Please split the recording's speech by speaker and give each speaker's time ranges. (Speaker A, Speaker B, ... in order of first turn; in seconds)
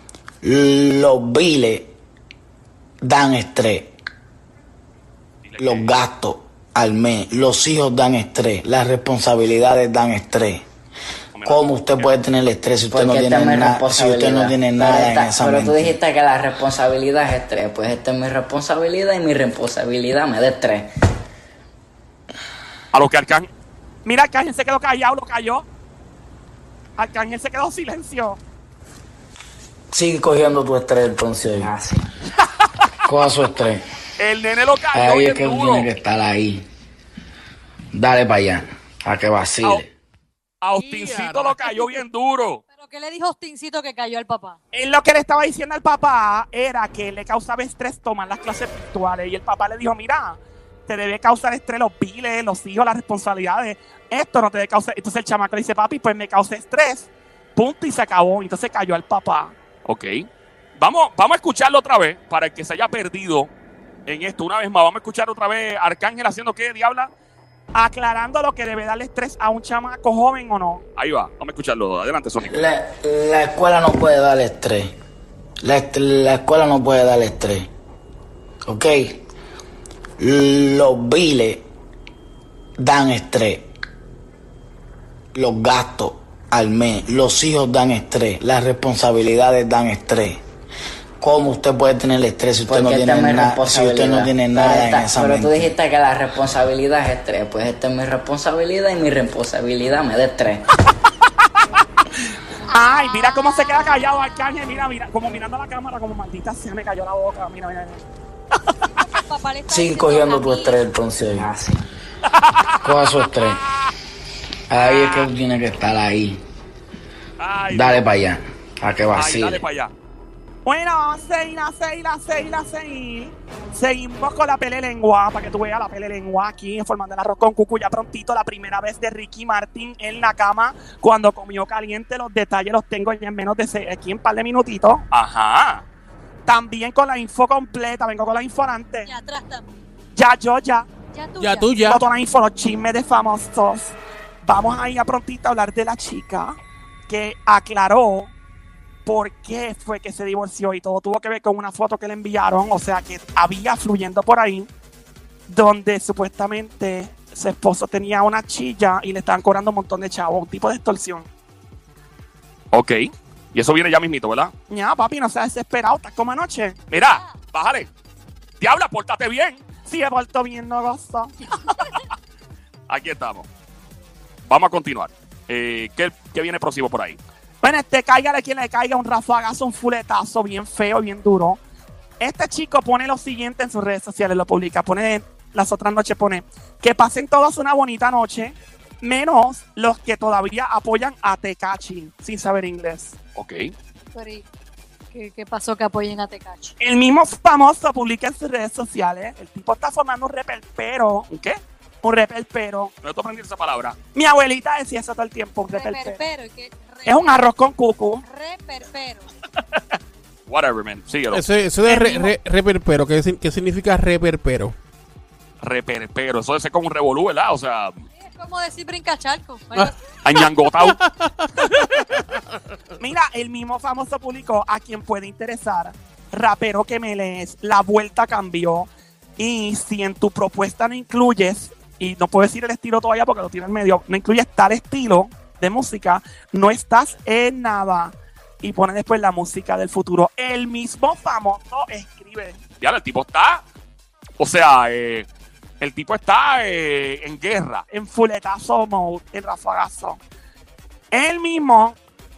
Speaker A: 0.4-1.9, 3.0-4.0, 5.6-10.6, 11.4-16.0, 29.9-31.7, 33.0-33.8, 34.9-36.6, 37.9-39.9, 72.4-75.0, 75.6-77.7, 78.6-79.2, 80.2-81.7, 82.8-83.7, 85.3-90.4, 91.2-95.8, 109.7-111.5, 112.8-113.6, 114.7-116.4, 117.7-119.6
Speaker B: 5.4-5.9, 11.3-12.2, 22.9-23.5, 34.2-35.9, 40.6-42.6, 59.8-63.5, 64.1-67.1, 71.0-72.6, 112.2-113.5, 114.8-115.2, 117.4-118.0, 119.1-119.9, 135.1-135.8, 162.7-164.5, 166.9-167.9, 168.6-169.7, 172.9-173.5, 174.5-177.2, 193.3-193.7, 203.0-204.0, 210.5-211.4, 215.6-218.0, 220.2-221.0, 242.8-243.6, 244.4-245.3, 245.8-247.8
Speaker C: 12.9-20.9, 31.6-32.0, 92.7-100.6, 111.3-111.8
Speaker D: 24.0-25.7, 27.0-28.4, 44.7-59.5, 67.7-70.8, 102.7-108.0, 120.6-135.0, 136.5-139.1, 140.1-140.9, 141.8-146.6, 147.1-148.3, 149.1-154.7, 155.5-161.3, 164.7-166.8, 169.8-171.4, 177.6-181.6, 182.2-193.2, 196.8-202.9, 204.1-206.2, 207.1-208.2, 211.9-212.2, 223.0-242.6, 247.9-250.2, 251.1-252.0
Speaker E: 40.8-41.7, 141.4-142.0, 211.3-214.7, 220.8-222.2
Speaker F: 42.7-44.6, 102.6-104.5, 108.8-110.8, 139.0-139.8, 141.1-141.9, 167.0-167.4, 194.1-194.4, 195.1-196.8, 205.7-207.4, 208.2-209.3, 218.1-220.0